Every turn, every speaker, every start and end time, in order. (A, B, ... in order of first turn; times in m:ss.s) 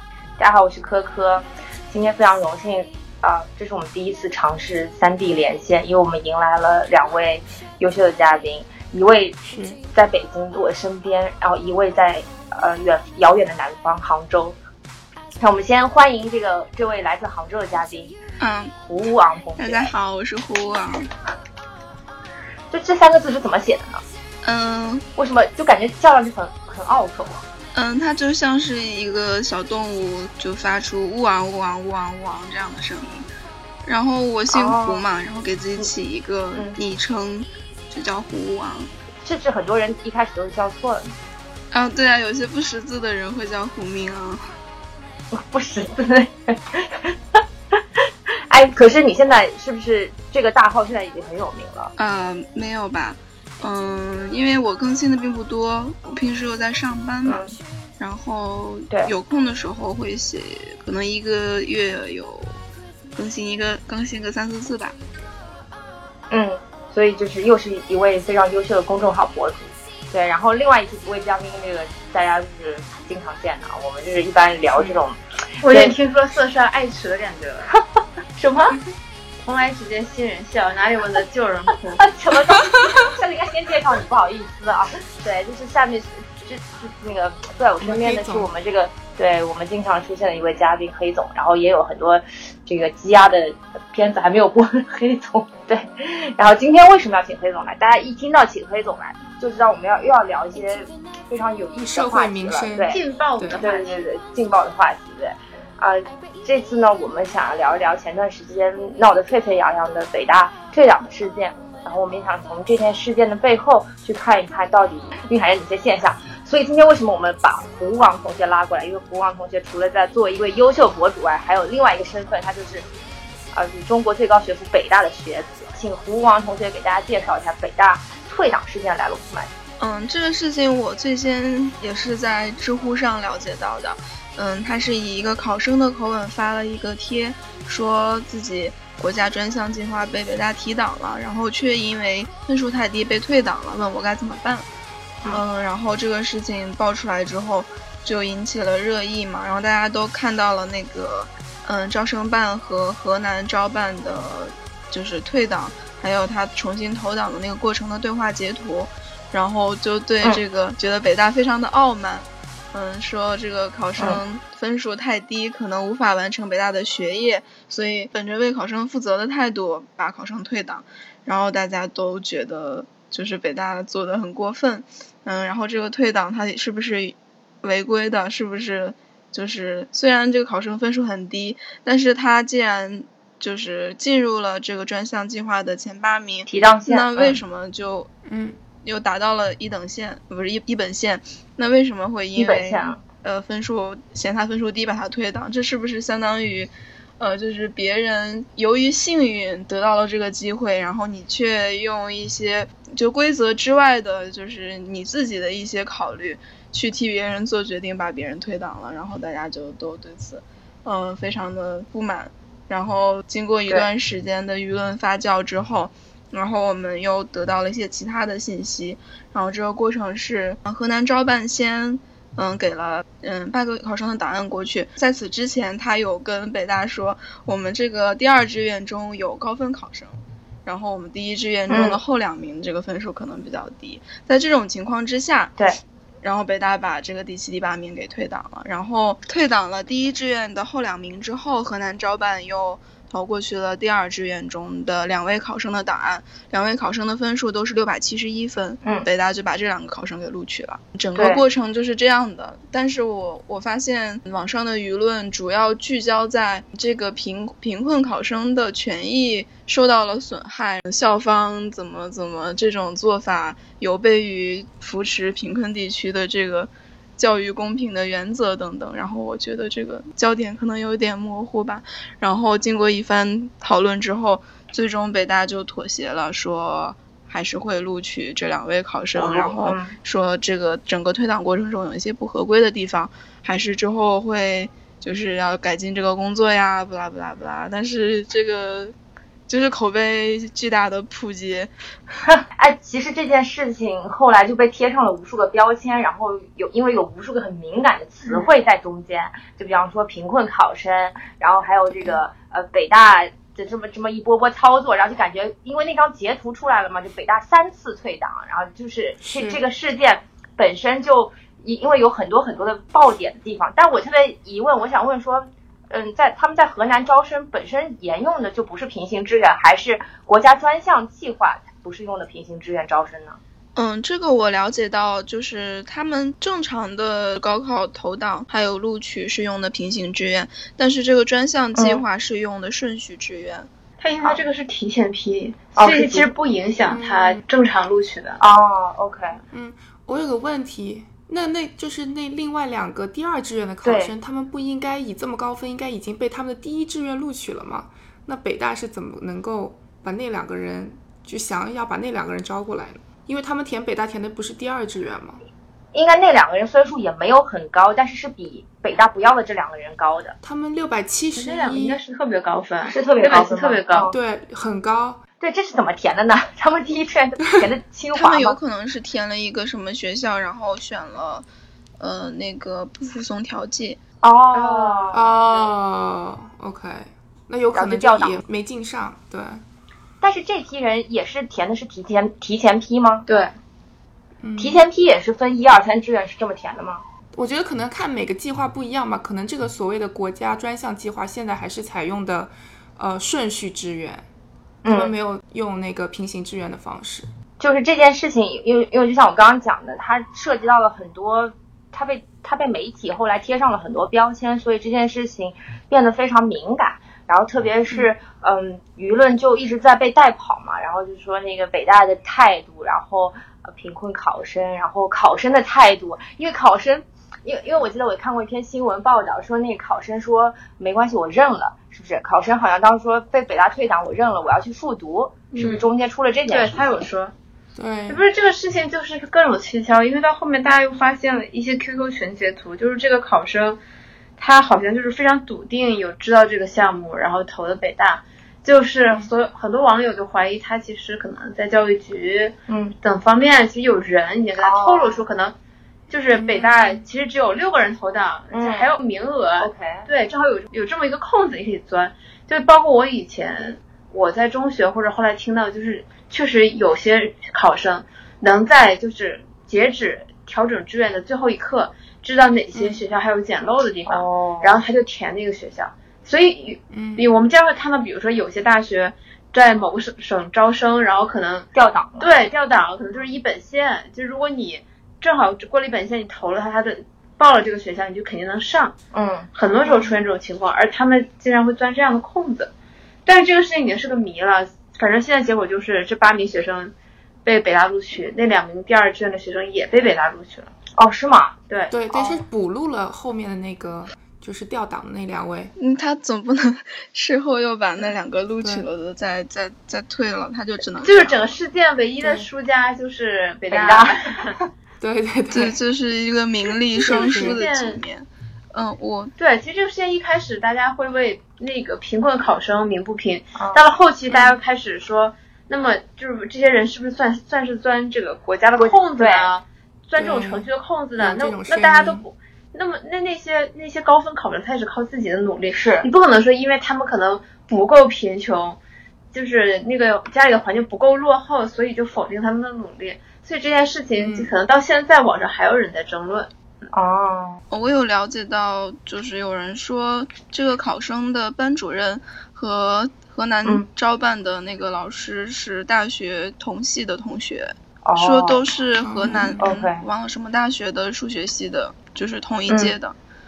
0:00.4-0:14.6 A
0:09.4-0:09.8 B
0:15.4-0:18.2 A
0:18.4-0:18.7 C
0:18.8-0:19.9 A
0:19.6-0:21.1 C
0:22.7-0:24.0 A
0:24.4-0:25.0 C
0:25.2-0:27.4 A
0:27.7-0:33.3 C
0:33.8-0:38.9 C
0:34.5-0:35.0 A
0:36.5-0:36.8 A
0:39.2-0:41.1 A
0:41.7-0:44.5 C
0:45.3-0:47.4 A
0:48.5-0:51.9 A
0:52.0-0:57.4 C
0:57.2-0:57.6 A
0:58.0-1:02.6 C
1:03.2-1:05.0 C
1:06.3-1:15.9 A
1:15.6-1:17.7 D
1:18.4-1:18.8 A
1:19.4-1:22.0 D
1:22.0-1:43.0 A
1:27.8-1:28.5 B
1:41.8-1:43.6 B
1:42.9-1:44.1 D
1:43.6-2:02.8 A
2:03.5-2:09.5 A
2:09.8-2:24.7 C
2:25.3-3:08.1 C
3:06.5-3:07.4 A
3:08.2-3:08.6 B
3:08.8-3:55.5 C
3:12.4-3:13.0 A
3:51.7-3:52.0 A
3:56.2-4:48.9 C
4:11.2-4:11.4 A
4:39.2-4:39.9 A
4:49.5-4:51.7 C
4:52.6-5:23.4 A
5:01.9-5:02.2 B
5:09.2-5:09.6 B
5:23.8-5:33.7 C
5:31.8-5:32.0 A
5:34.0-5:38.4 D
5:35.8-5:36.3 A
5:36.9-5:37.4 B
5:38.4-5:39.4 A
5:39.5-5:55.4 B
5:43.8-5:44.1 A
5:55.9-6:00.4 A
6:00.4-6:02.0 B
6:01.4-6:04.1 D
6:02.8-6:04.2 A
6:04.1-6:05.2 B
6:05.4-6:08.6 A
6:08.2-6:11.5 C
6:12.0-6:14.0 C
6:14.2-6:15.3 A
6:14.5-6:15.7 D
6:15.1-6:19.6 B
6:17.7-6:18.4 A
6:20.2-6:23.3 A
6:23.3-6:23.5 D
6:24.4-6:24.8 B
6:24.6-6:27.0 A
6:27.3-6:34.2 B
6:34.8-6:35.1 A
6:34.9-6:37.3 B
6:37.6-7:06.9 A
7:05.5-7:05.9 D
7:06.5-7:07.3 D
7:07.8-7:08.2 B
7:08.1-7:13.8 D
7:14.4-7:25.6 D
7:22.7-7:23.0 A
7:24.6-7:25.2 A
7:26.1-7:51.7 D
7:26.3-7:27.0 B
7:28.5-7:28.9 A
7:29.6-7:30.1 A
7:42.7-7:43.0 B
7:44.1-7:44.8 A
7:46.9-7:47.3 B
7:51.8-7:52.4 A
7:52.2-7:58.9 D
7:59.1-7:59.5 A
7:59.5-8:02.7 D
8:03.2-8:06.9 D
8:07.4-8:10.7 D
8:11.0-8:11.6 A
8:11.7-8:12.4 D
8:11.9-8:15.7 B
8:15.8-8:21.5 C
8:18.6-8:18.9 B
8:21.0-8:24.5 D
8:22.2-8:22.5 B
8:23.7-8:24.7 A
8:25.0-8:25.8 B
8:25.5-8:29.3 C
8:27.0-8:28.0 D
8:27.0-8:27.6 B
8:29.4-8:48.8 D
8:33.5-8:33.8 A
8:34.3-8:34.6 B
8:38.8-8:39.5 A
8:40.2-8:42.2 B
8:45.7-8:46.1 A
8:49.3-8:56.5 D
8:54.2-8:54.5 B
8:56.9-8:57.6 A
8:57.7-9:13.1 C
9:08.0-9:08.6 A
9:09.0-9:09.6 B
9:09.6-9:10.0 A
9:12.7-9:12.9 A